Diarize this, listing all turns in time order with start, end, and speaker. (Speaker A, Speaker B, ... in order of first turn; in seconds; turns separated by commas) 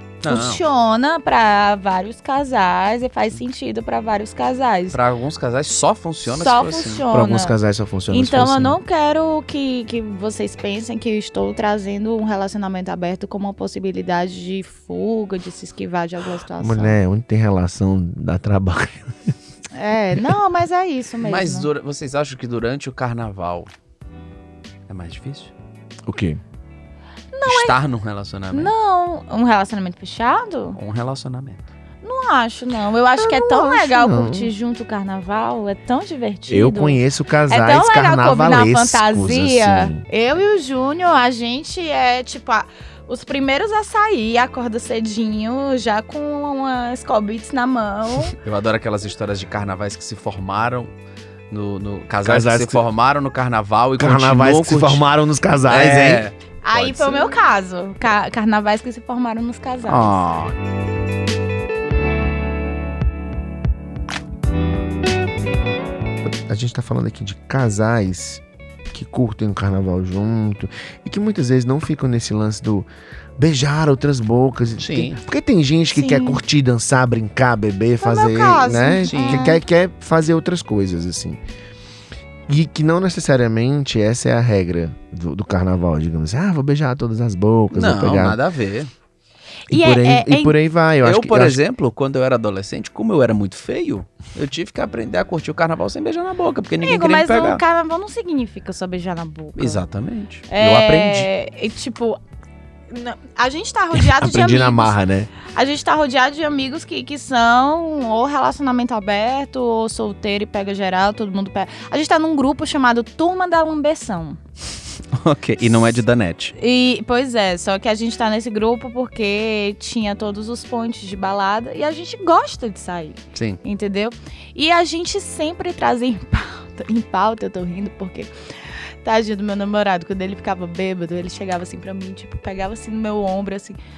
Speaker A: 0.2-0.6, Speaker B: 0.2-5.0, Speaker A: 4.9-7.0, Speaker B: 6.3-7.6, Speaker C: 7.1-8.8, Speaker B: 8.1-17.0, Speaker C: 16.6-19.3, Speaker B: 19.7-21.7, Speaker A: 21.2-23.7, Speaker A: 24.9-25.5, Speaker C: 26.1-26.4, Speaker B: 27.3-27.8, Speaker A: 27.4-28.7, Speaker B: 28.5-30.8, Speaker A: 30.8-31.6, Speaker B: 32.0-48.4, Speaker C: 33.2-34.5, Speaker C: 36.5-40.0, Speaker A: 48.3-50.9, Speaker A: 51.5-55.0, Speaker C: 52.2-52.8, Speaker C: 54.0-56.2, Speaker A: 55.7-57.3, Speaker B: 56.6-60.3, Speaker A: 59.9-60.6, Speaker C: 66.2-81.4, Speaker A: 74.8-75.2, Speaker B: 75.9-76.4, Speaker B: 78.0-79.6, Speaker A: 79.1-79.5, Speaker C: 82.5-88.4, Speaker A: 87.7-88.9, Speaker B: 89.7-90.6, Speaker C: 89.7-91.6, Speaker A: 91.0-97.6, Speaker B: 96.8-99.8, Speaker A: 99.6-101.3, Speaker B: 100.5-102.2, Speaker B: 102.9-114.4, Speaker C: 104.0-105.3, Speaker A: 115.1-116.5, Speaker B: 115.6-116.0, Speaker B: 116.6-133.8, Speaker A: 123.3-123.6